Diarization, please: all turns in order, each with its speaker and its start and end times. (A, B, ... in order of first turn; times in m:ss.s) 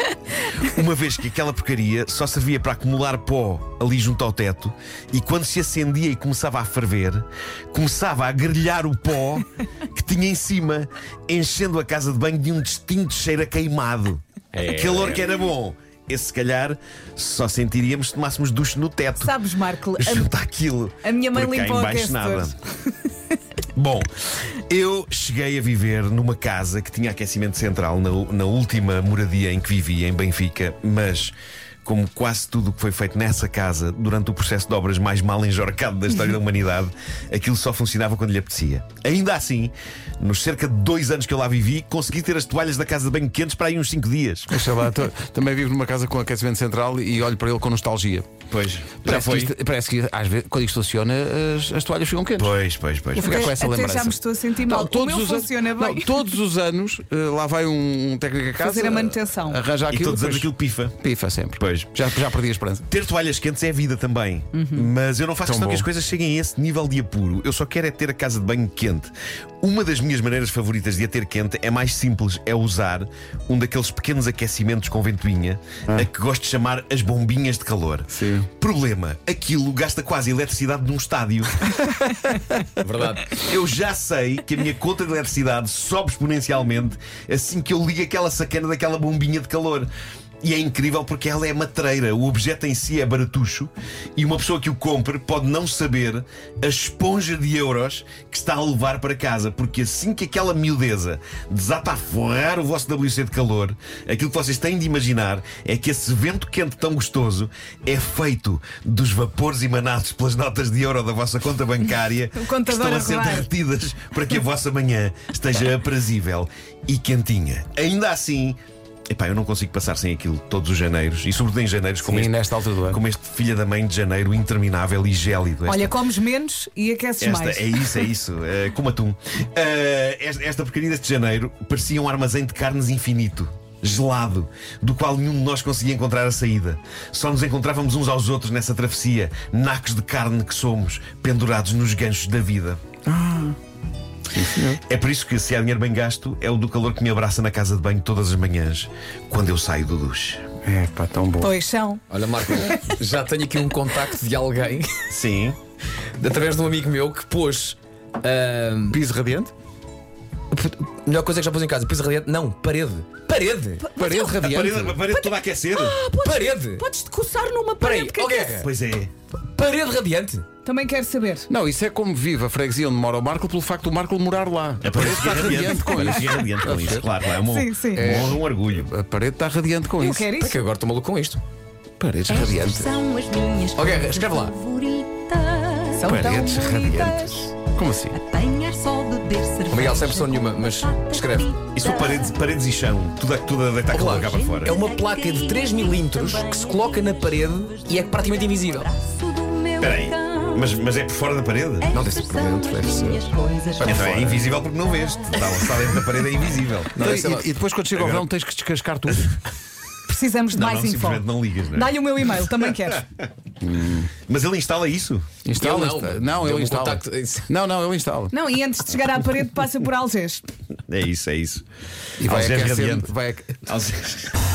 0:00.6-0:19.4 A
0:14.5-0:15.2 B
0:19.2-0:20.3 C
0:20.0-0:22.6 A
0:21.0-0:23.1 C
0:23.8-0:31.3 A
0:31.8-0:44.5 A
0:44.5-0:48.3 D
0:48.5-0:49.5 A
0:49.0-0:52.5 D
0:52.4-0:53.5 A
0:53.2-1:02.9 D
0:53.2-0:56.2 C
0:58.6-0:59.6 C
0:59.9-1:01.0 A
1:01.6-1:01.9 A
1:02.9-1:21.6 A
1:04.6-1:04.9 C
1:05.5-1:05.9 D
1:18.1-1:18.5 D
1:22.8-1:23.4 B
1:23.3-1:29.9 A
1:30.4-1:58.6 A
1:52.4-1:53.5 C
1:59.1-2:02.3 A
2:02.0-2:03.0 D
2:02.9-2:06.0 A
2:05.7-2:07.7 C
2:07.2-2:22.8 A
2:23.1-2:23.6 D
2:24.3-2:24.8 D
2:24.8-2:30.4 A
2:30.6-2:31.5 D
2:31.4-2:33.0 C
2:32.1-2:35.0 B
2:35.1-2:35.6 A
2:36.2-2:39.0 B
2:38.9-2:39.5 D
2:40.5-2:43.9 B
2:43.8-2:44.4 C
2:44.0-2:45.0 D
2:44.4-2:46.0 A
2:45.7-2:46.8 B
2:46.0-2:48.7 C
2:47.8-2:48.7 B
2:48.6-2:49.1 A
2:49.5-2:50.5 B
2:50.6-2:51.5 C
2:51.5-2:57.1 D
2:54.8-2:58.9 A
2:57.5-2:58.1 C
2:58.0-3:00.3 D
3:00.0-3:00.6 C
3:00.4-3:01.4 B
3:02.0-3:03.0 D
3:02.3-3:06.1 E
3:03.8-3:04.5 B
3:06.0-3:07.5 C
3:06.0-3:08.2 D
3:06.1-3:06.4 B
3:08.1-3:12.4 E
3:09.7-3:11.6 B
3:11.7-3:14.8 A
3:13.9-3:18.9 B
3:14.1-3:20.8 E
3:19.8-3:21.9 A
3:21.8-3:24.1 E
3:21.9-3:23.2 B
3:23.8-3:24.4 B
3:23.8-3:27.2 A
3:24.7-3:25.7 E
3:26.9-3:27.5 B
3:27.0-3:29.4 D
3:28.0-3:28.2 A
3:30.1-3:33.0 C
3:30.5-3:32.0 A
3:33.6-3:34.1 D
3:34.3-3:35.3 A
3:35.4-3:38.4 D
3:35.6-3:37.5 B
3:38.3-3:40.4 C
3:40.9-3:41.6 A
3:42.2-3:43.6 D
3:42.2-3:43.1 A
3:43.6-3:44.3 A